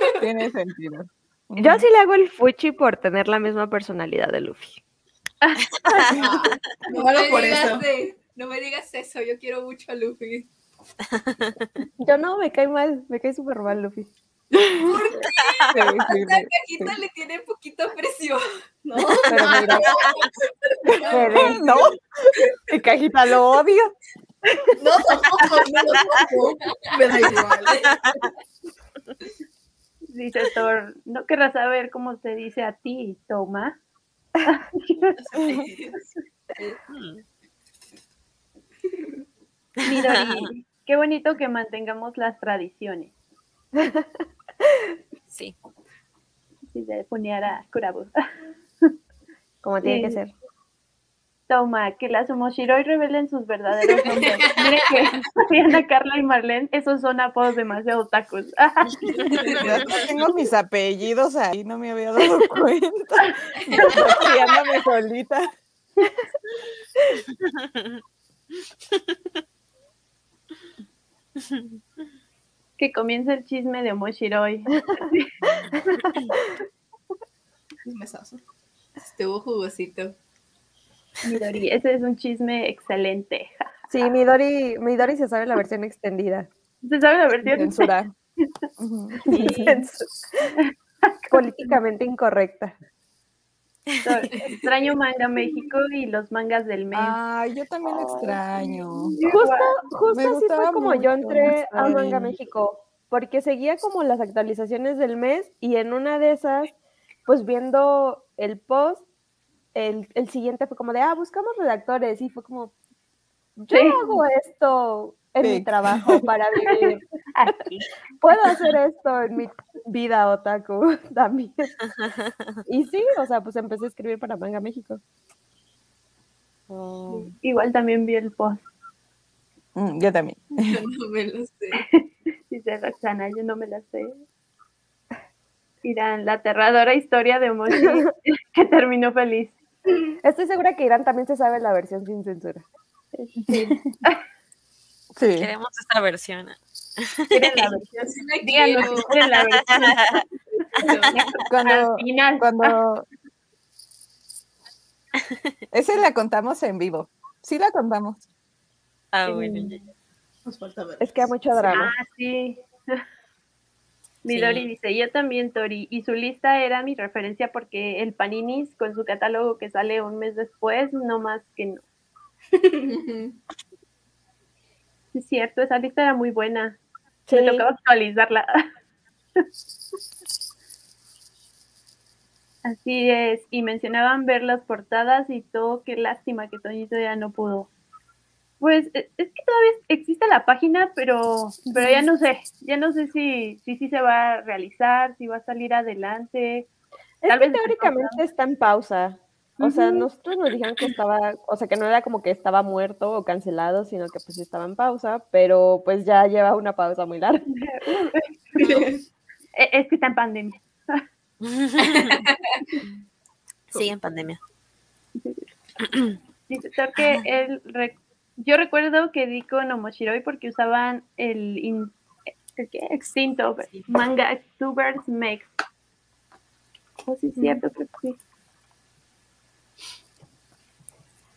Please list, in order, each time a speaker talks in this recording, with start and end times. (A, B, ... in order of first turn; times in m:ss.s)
0:00.2-0:01.8 A
0:01.6-0:04.8 B
0:05.4-0:06.1 C
0:06.2-0:07.9 D
0:06.9-0:10.5 E
0:11.2-0:11.7 F
0:12.0-0:14.1 B
0:14.9-0:15.2 D
0:15.2-0:20.3 E
0:15.4-0:15.9 F
0:15.7-0:16.9 A
0:18.8-0:20.0 D
0:19.3-0:20.0 B
0:21.0-0:21.6 E
0:21.1-0:21.5 D
0:21.1-0:21.6 B
0:21.1-0:23.9 A
0:24.8-0:28.0 D
0:26.7-0:27.2 E
0:30.1-0:33.8 C
0:34.5-0:35.1 C
0:35.2-0:36.0 D
0:36.9-0:37.2 F
0:39.8-0:43.1 C
0:39.9-0:40.5 F
0:46.7-0:48.1 C
0:49.6-0:50.3 B
0:49.8-0:50.2 C
0:51.5-0:59.3 C
0:54.0-0:55.1 E
0:59.3-0:59.8 E
0:59.6-1:00.0 F
0:59.7-1:05.5 A
1:03.8-1:04.3 C
1:07.4-1:08.0 F
1:12.8-1:15.3 C
1:15.6-1:16.3 F
1:17.8-1:18.4 D
1:19.0-1:20.2 E
1:21.2-1:23.6 C
1:23.9-1:26.5 B
1:26.8-1:27.9 C
1:27.5-1:28.1 A
1:28.8-1:29.8 A
1:29.3-1:29.7 C
1:29.3-1:30.1 B
1:31.1-1:31.4 C
1:31.3-1:32.8 B
1:34.0-1:37.2 C
1:36.9-1:42.3 A
1:37.9-1:38.3 B
1:38.0-1:38.3 C
1:39.0-1:39.7 C
1:39.2-1:46.7 B
1:47.3-1:49.0 B
1:49.7-1:52.7 B
1:53.6-1:57.6 B
1:53.7-1:54.2 C
1:55.4-1:56.2 A
1:57.3-1:57.9 C
1:58.2-2:01.7 B
2:02.7-2:05.0 B
2:06.7-2:07.3 F
2:07.1-2:08.6 C
2:09.8-2:10.8 A
2:10.8-2:11.8 E
2:11.8-2:14.2 C
2:15.8-2:19.6 C
2:17.7-2:18.1 B
2:20.2-2:22.6 B
2:23.2-2:24.2 C
2:25.2-2:25.5 A
2:25.4-2:27.7 F
2:27.3-2:30.2 C
2:28.0-2:29.1 E
2:29.1-2:30.2 F
2:30.9-2:31.3 F
2:31.1-2:32.7 C
2:31.5-2:33.1 A
2:35.7-2:38.2 A
2:39.1-2:39.8 F
2:39.3-2:39.8 C
2:40.4-2:41.8 D
2:41.0-2:41.9 B
2:41.7-2:43.0 C
2:44.2-2:51.8 C
2:44.3-2:44.7 F
2:52.9-2:53.4 E
2:55.1-2:56.8 C
2:57.3-2:57.6 B
2:57.3-2:58.6 C
3:02.6-3:07.7 C
3:08.6-3:16.7 C
3:11.7-3:12.0 B
3:17.2-3:18.2 C
3:17.3-3:27.4 B
3:19.6-3:20.1 C
3:27.5-3:28.8 C
3:28.6-3:29.0 D
3:29.6-3:31.0 C
3:31.4-3:32.2 F
3:33.7-3:34.4 F
3:35.2-3:35.5 C
3:36.5-3:41.9 C
3:42.6-3:45.5 C
3:47.1-3:48.2 C